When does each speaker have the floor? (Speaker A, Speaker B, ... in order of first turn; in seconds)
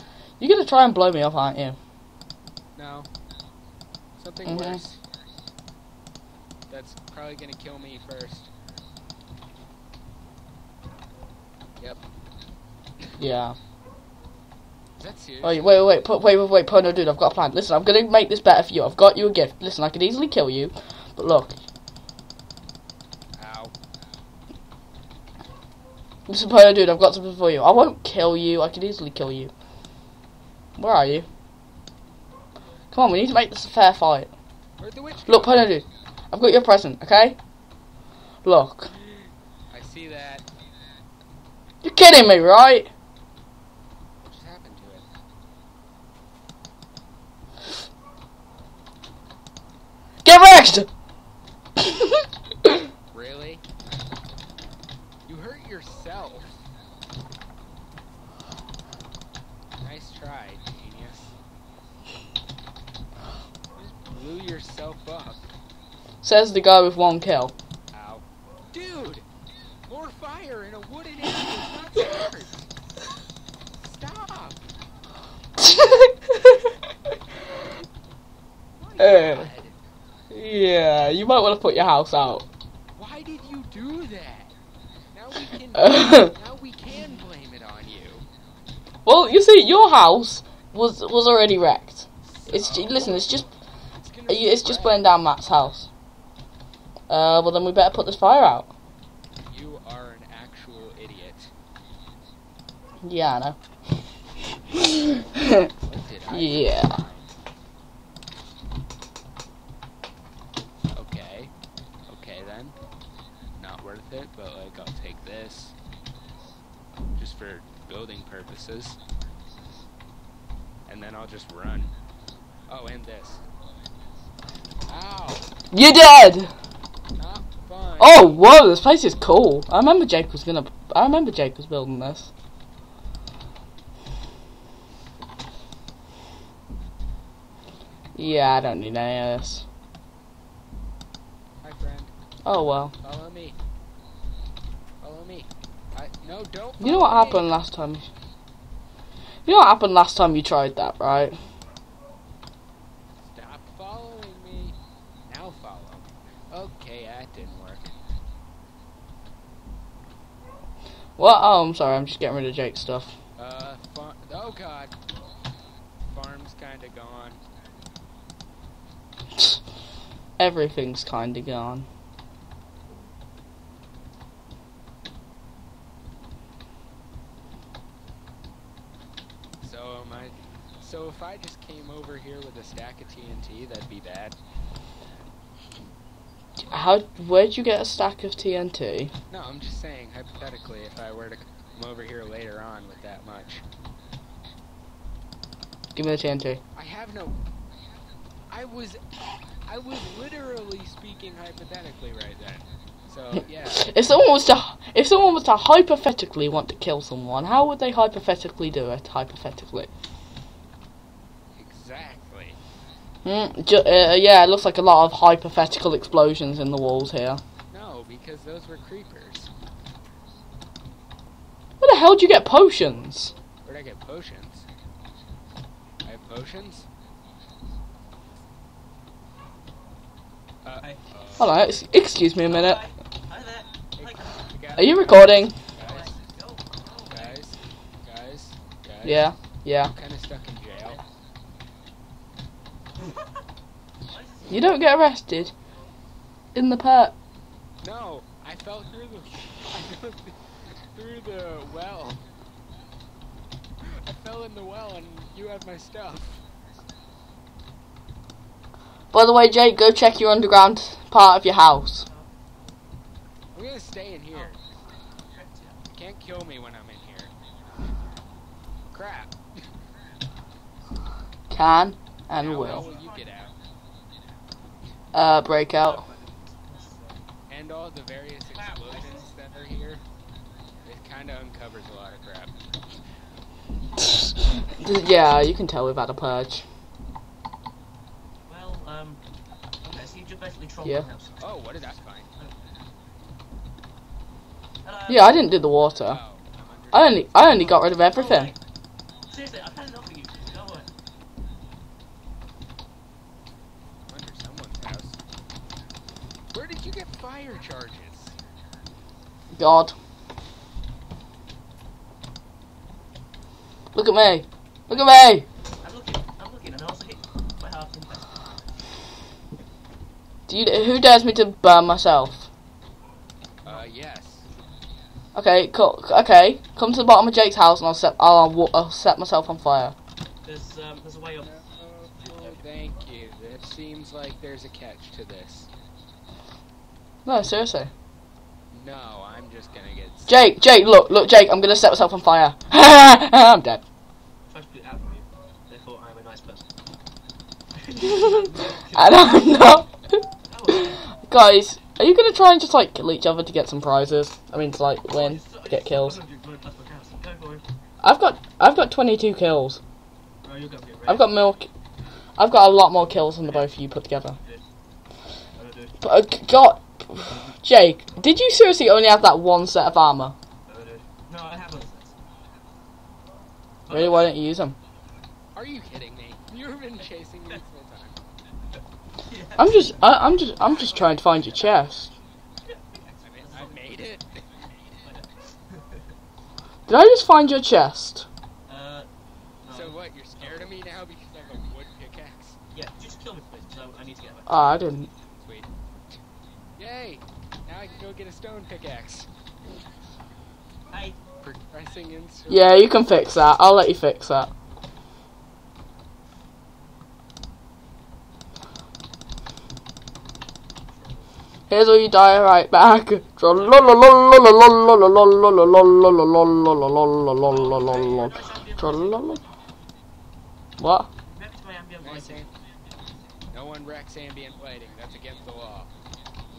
Speaker A: 0.4-1.8, 4.5-4.8, 13.2-13.6, 15.4-21.6, 26.3-29.5, 30.8-31.3, 32.9-34.3, 35.3-37.4, 38.4-38.9, 41.8-42.9, 50.2-50.9, 51.8-52.7, 66.2-67.5, 75.6-76.7, 79.0-79.5, 80.3-82.5, 85.8-86.3, 89.1-93.5, 94.3-95.9, 97.1-98.7, 103.0-103.6, 104.7-105.7, 106.3-107.0, 125.7-126.5, 128.0-132.3, 138.2-139.7, 142.4-142.9, 146.8-148.1, 149.5-151.4, 161.2-163.1, 170.4-171.9, 186.7-189.1, 195.9-196.6, 203.7-209.9, 213.2-217.4, 221.8-223.3, 231.4-232.8, 234.8-235.5, 239.0-239.9, 244.5-245.5, 246.6-247.1, 259.1-262.1, 271.5-272.9, 275.1-276.1, 284.7-286.6, 295.1-296.2, 296.9-298.5, 309.5-309.9, 313.9-315.5, 320.5-322.5, 325.4-329.9, 337.2-337.9, 340.3-343.8, 348.1-356.2, 358.0-359.8, 361.1-361.7, 362.4-364.4, 366.0-370.4, 373.9-374.8, 379.6-382.1, 386.9-388.3, 394.5-395.1, 402.5-404.5, 411.7-419.4, 420.8-421.1
Speaker B: 2.8-3.1, 4.2-5.0, 6.7-8.5, 15.0-15.8, 23.4-23.7, 34.8-35.8, 38.9-40.5, 44.2-45.1, 53.1-53.7, 55.3-56.6, 59.8-61.3, 63.8-65.5, 67.9-69.2, 69.9-72.7, 73.7-74.6, 78.8-79.8, 83.0-84.5, 85.1-88.3, 92.2-93.4, 94.0-95.1, 99.5-101.5, 105.8-107.3, 110.9-111.5, 112.1-112.8, 113.6-115.7, 117.2-119.0, 120.9-121.9, 122.7-123.4, 124.9-125.5, 127.2-128.4, 141.6-142.1, 143.0-143.6, 145.0-147.6, 153.2-154.8, 155.3-157.9, 163.4-164.9, 166.0-167.4, 179.6-184.4, 189.3-193.6, 196.7-197.3, 198.5-203.9, 211.6-212.6, 217.7-219.5, 223.6-224.7, 226.0-226.9, 230.6-231.6, 234.0-236.2, 237.1-241.0, 247.8-252.2, 253.8-256.4, 263.5-264.6, 265.9-267.3, 268.9-269.3, 272.4-273.6, 277.5-280.0, 280.8-282.6, 291.4-292.3, 296.0-297.9, 304.1-305.2, 306.5-308.4, 323.6-324.5, 331.4-335.7, 338.7-340.5, 375.5-378.2, 380.3-381.2, 383.2-384.7, 389.7-392.6, 395.4-396.2, 396.8-399.3, 401.4-402.8, 422.0-422.5, 423.5-425.9
Speaker C: 232.3-234.5, 235.8-237.4, 244.1-245.0, 262.0-262.5, 264.3-264.6, 265.2-265.8, 272.5-273.5, 275.8-277.2, 278.5-279.3, 288.5-289.2, 289.8-292.6, 294.8-295.6, 298.0-298.6, 299.3-300.9, 315.8-318.4, 330.4-331.5, 332.2-332.6, 344.5-346.6, 347.8-349.5, 350.5-351.1, 355.1-357.6, 360.4-361.4, 363.4-363.7, 364.4-364.6, 365.5-366.0, 370.7-372.1, 373.9-374.3, 379.3-380.2, 382.6-384.1, 385.0-386.1, 388.7-389.1, 389.6-390.9, 392.7-394.8, 400.9-401.2, 410.9-411.3, 413.5-414.0, 417.4-419.4, 421.2-422.4